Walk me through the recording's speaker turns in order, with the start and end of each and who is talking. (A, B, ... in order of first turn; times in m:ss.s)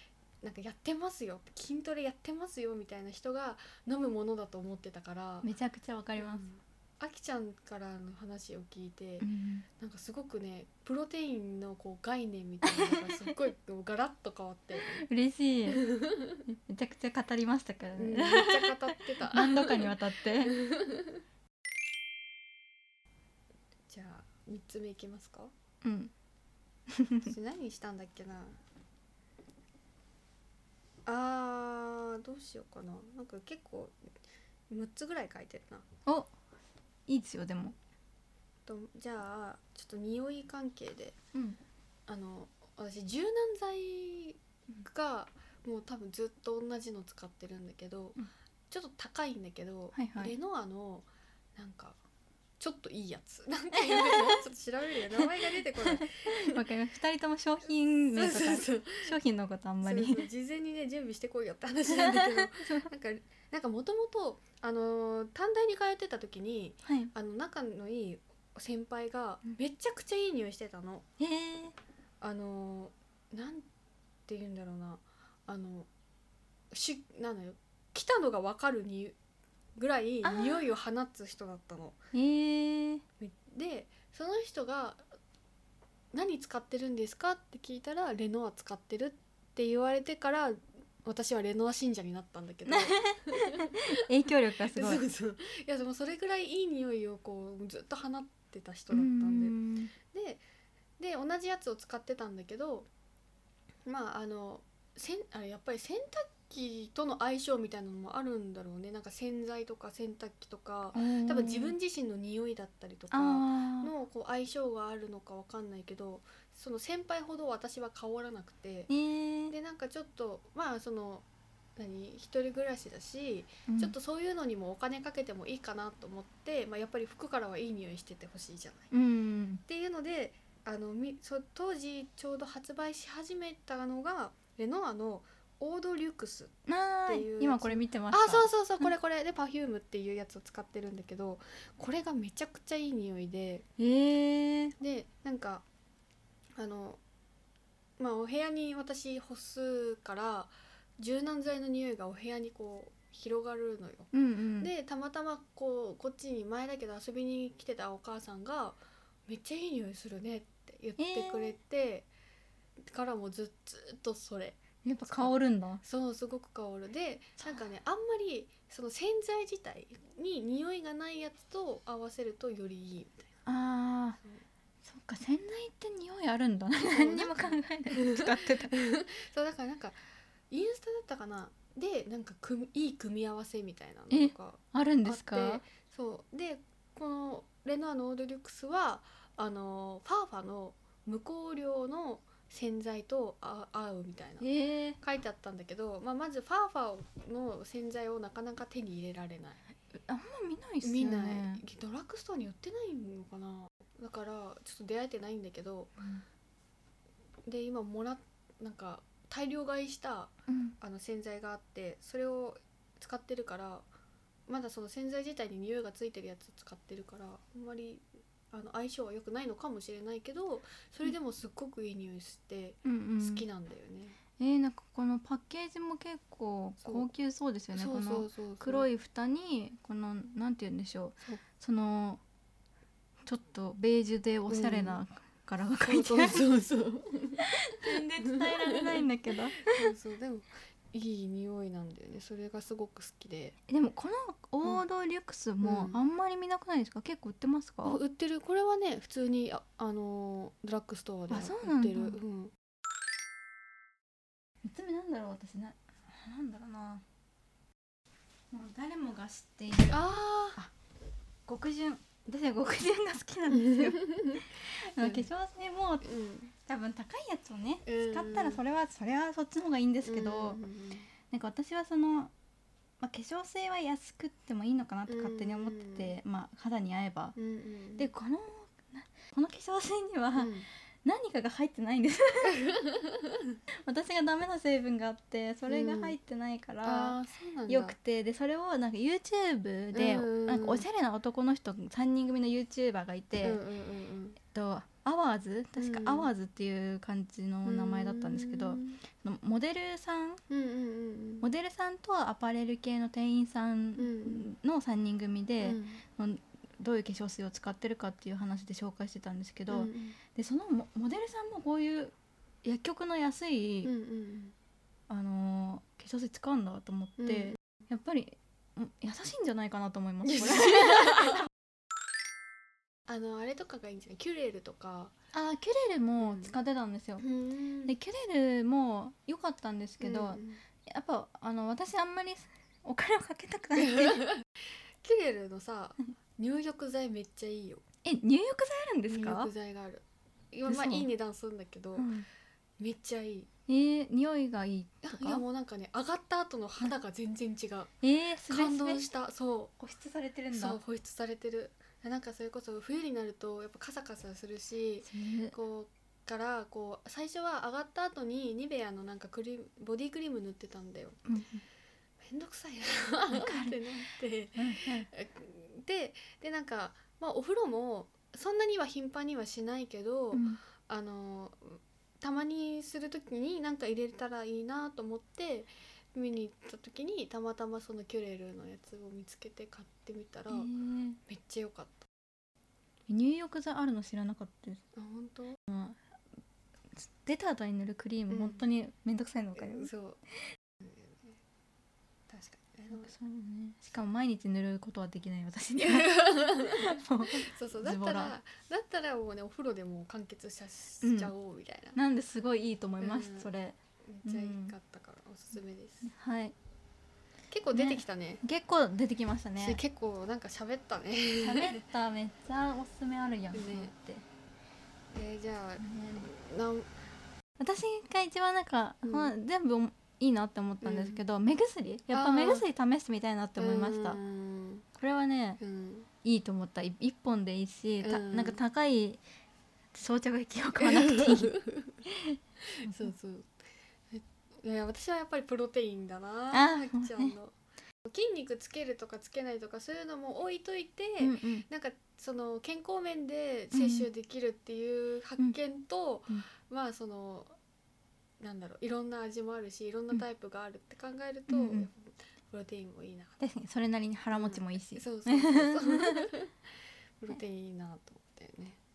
0:00.4-0:05.5 A
0:05.4-0:06.5 B
0:06.2-0:09.3 A
0:09.2-0:09.7 B
0:09.8-0:15.0 A
0:12.7-0:13.3 B
0:14.8-0:15.8 B
0:15.7-0:16.4 A
0:16.5-0:20.6 B
0:18.0-0:21.2 A
0:23.9-0:25.5 A
0:25.8-0:26.1 B
0:26.9-0:27.3 B
0:27.2-0:28.5 A
0:31.1-0:33.9 A
0:34.7-0:35.8 A
0:36.1-0:36.3 B
0:37.1-0:37.8 B
0:38.7-0:41.2 A
0:42.1-0:48.2 A
0:48.7-0:52.0 A
0:49.9-0:50.3 B
0:52.6-0:56.6 A
0:53.8-0:54.4 B
0:55.2-1:00.3 B
0:58.1-0:59.1 A
0:59.8-1:11.1 A
1:01.9-1:02.9 B
1:06.8-1:07.1 B
1:11.2-1:11.8 B
1:12.2-1:13.7 A
1:14.3-1:15.9 A
1:16.7-1:19.2 A
1:19.8-1:22.0 A
1:20.2-1:20.6 B
1:22.1-1:23.0 B
1:23.2-1:25.0 A
1:26.1-1:33.9 A
1:32.7-1:35.0 B
1:34.6-1:39.6 A
1:38.9-1:39.9 B
1:40.1-1:40.4 A
1:41.0-1:42.9 A
1:43.9-1:58.9 A
1:50.9-1:51.8 B
1:53.1-1:53.9 B
1:58.9-1:59.5 B
1:59.5-2:01.3 A
2:01.8-2:08.9 A
2:03.7-2:04.0 B
2:08.9-2:09.6 B
2:09.7-2:16.5 A
2:16.7-2:18.9 B
2:17.1-2:23.7 A
2:23.8-2:24.8 B
2:24.8-2:25.6 A
2:26.6-2:27.0 A
2:28.0-2:42.1 A
2:34.1-2:34.7 B
2:41.0-2:41.6 B
2:42.9-2:53.3 A
2:44.8-2:45.8 B
2:53.5-2:54.2 B
2:54.8-2:58.7 B
2:56.8-3:00.0 A
3:00.5-3:14.5 A
3:04.1-3:05.6 B
3:14.4-3:15.0 B
3:15.0-3:19.6 A
3:20.0-3:21.6 B
3:20.8-3:26.0 A
3:27.5-3:33.9 A
3:30.5-3:30.8 B
3:34.5-3:44.2 A
3:42.8-3:43.4 B
3:44.4-3:52.2 B
3:46.8-3:47.1 A
3:47.7-3:48.9 A
3:53.2-3:56.5 B
3:54.5-3:55.0 A
3:55.8-3:57.4 A
3:57.4-3:59.7 B
3:58.2-3:59.0 A
3:59.7-4:03.6 A
4:03.7-4:08.0 B
4:05.6-4:06.0 A
4:07.8-4:12.5 A
4:11.3-4:12.2 B
4:14.6-4:17.0 B
4:18.5-4:20.0 B
4:19.9-4:20.6 A
4:21.5-4:26.1 B
4:23.5-4:24.5 A
4:25.0-4:25.3 A
4:26.0-4:26.5 A
4:26.6-4:30.6 B
4:27.8-4:28.6 A
4:30.0-4:31.1 A
4:31.3-4:32.3 B
4:33.0-4:37.4 B
4:35.1-4:36.2 A
4:37.4-4:38.1 A
4:38.0-4:40.5 B
4:40.4-4:40.7 A
4:41.0-4:42.6 B
4:42.4-4:43.6 A
4:43.8-4:53.6 B
4:45.7-4:46.2 A
4:46.8-4:48.0 A
4:49.9-4:50.9 A
4:53.4-4:54.4 A
4:54.4-5:00.4 B
4:55.8-4:56.3 A
4:57.6-4:59.0 A
5:00.5-5:01.5 A
5:01.4-5:13.9 B
5:04.0-5:04.5 A
5:05.6-5:06.0 A
5:09.7-5:10.2 A
5:13.8-5:14.6 A
5:15.1-5:21.4 B
5:17.2-5:17.6 A
5:20.2-5:21.4 A
5:23.1-5:25.1 A
5:25.3-5:27.3 B
5:26.2-5:26.5 A
5:27.2-5:28.0 A
5:27.8-5:34.3 B
5:30.0-5:30.6 A
5:33.8-5:34.5 A
5:35.0-5:37.8 A
5:38.0-5:39.5 B
5:39.1-5:42.1 A
5:40.7-5:41.1 B
5:42.0-5:42.3 B
5:42.8-5:43.5 A
5:43.7-5:45.4 B
5:45.0-5:47.9 A
5:48.0-5:49.1 B
5:48.5-5:49.7 A
5:49.8-5:50.8 B
5:50.5-6:01.2 A
5:55.0-5:55.6 B
6:01.3-6:01.6 B
6:02.2-6:20.7 A
6:03.3-6:03.8 B
6:04.6-6:05.1 B
6:10.3-6:10.6 B
6:20.5-6:21.2 B
6:21.3-6:22.1 A
6:23.1-6:24.8 B
6:25.0-6:25.6 A
6:25.7-6:26.0 B
6:26.9-6:29.9 B
6:28.3-6:28.6 A
6:29.6-6:30.2 A
6:30.8-6:31.3 A
6:32.3-6:33.1 A
6:32.9-6:38.4 B
6:35.8-6:42.0 A
6:41.0-6:41.3 B
6:42.0-6:44.7 B
6:43.0-6:43.5 A
6:44.0-6:46.1 A
6:46.0-6:46.6 B
6:47.5-6:48.4 A
6:47.7-6:49.8 B
6:49.6-6:51.8 A
6:51.4-6:54.2 B
6:53.5-6:53.9 A
6:55.1-6:56.9 A
6:55.8-6:56.3 B
6:57.6-7:04.2 B
6:59.0-6:59.3 A
7:00.8-7:01.2 A
7:02.1-7:02.7 A
7:03.6-7:04.9 A
7:05.0-7:05.6 B
7:05.6-7:06.1 A
7:06.2-7:09.2 B
7:08.0-7:08.6 A
7:09.9-7:13.1 B
7:10.8-7:12.0 A
7:12.7-7:13.5 A
7:14.1-7:17.6 A
7:16.5-7:17.4 B
7:18.1-7:27.5 A
7:21.2-7:21.7 B
7:23.7-7:24.1 B
7:28.4-7:33.4 A
7:31.5-7:31.9 B
7:33.4-7:36.3 B
7:34.3-7:36.6 A
7:37.2-7:38.8 A